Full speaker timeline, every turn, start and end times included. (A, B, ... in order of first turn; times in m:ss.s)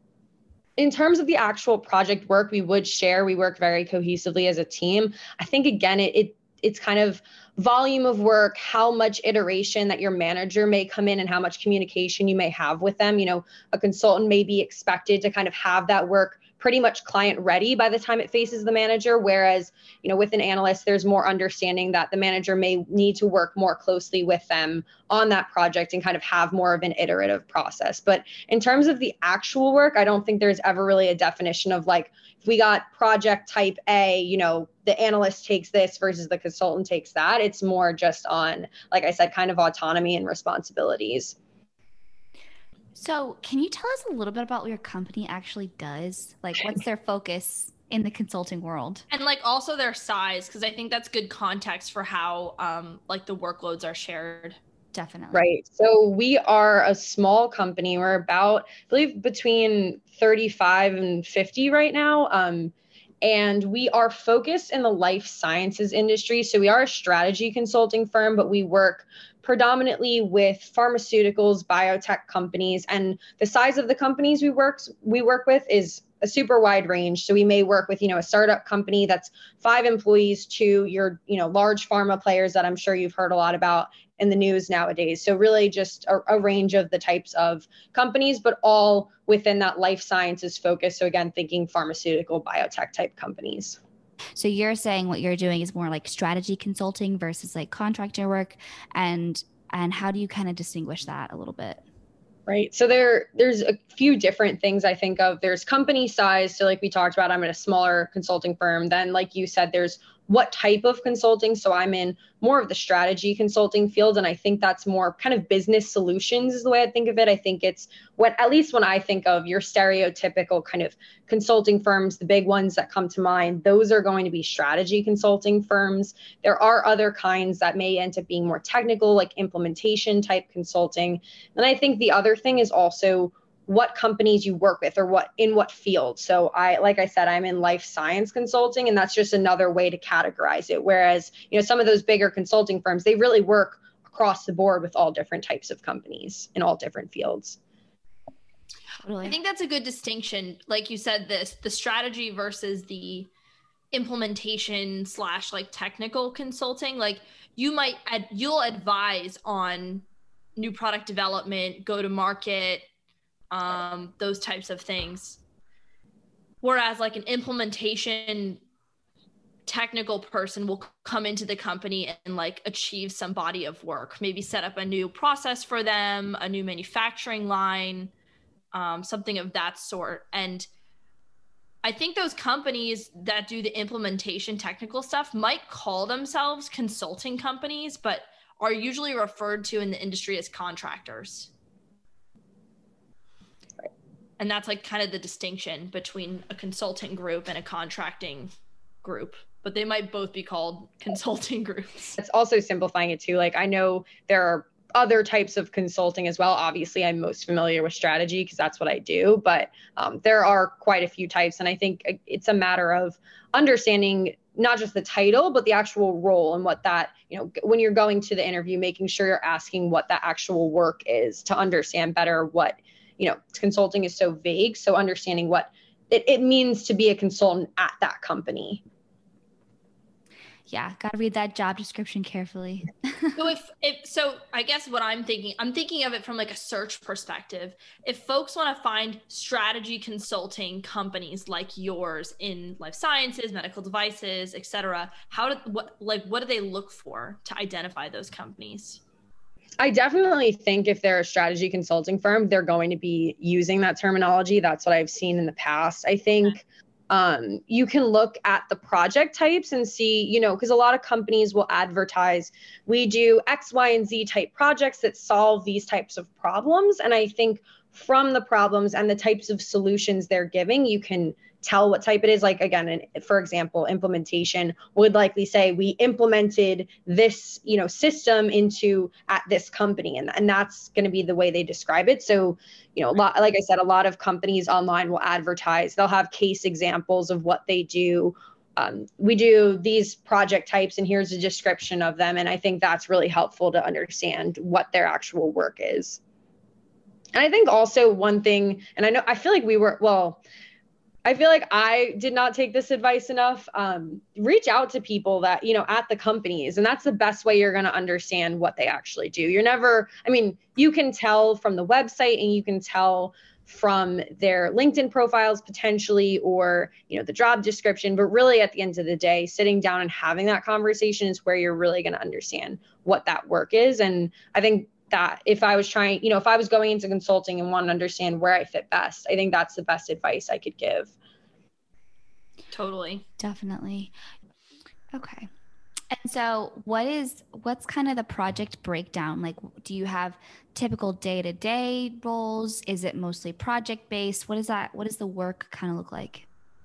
0:00.8-0:41.4 A
0:43.0-0:49.0 B
0:49.1-0:54.6 C
0:54.9-0:55.5 B
0:55.3-1:33.8 A
1:34.4-1:41.8 B
1:42.5-2:27.6 A
2:29.0-2:29.4 B
2:29.2-2:33.3 C
2:33.9-2:40.0 C
2:40.6-2:42.9 C
2:43.5-2:45.4 C
2:46.6-2:48.6 C
2:49.7-2:58.1 C
2:58.7-3:00.7 C
3:01.8-3:11.5 C
3:14.4-3:18.5 C
3:19.0-3:22.1 C
3:22.2-3:48.8 A
3:50.7-3:53.4 B
3:53.4-4:09.0 C
4:09.8-4:56.2 A
4:57.3-5:00.4 A
5:01.2-5:31.1 A
5:32.7-5:33.2 C
5:33.4-5:34.1 B
5:35.1-5:35.5 B
5:36.1-5:46.5 B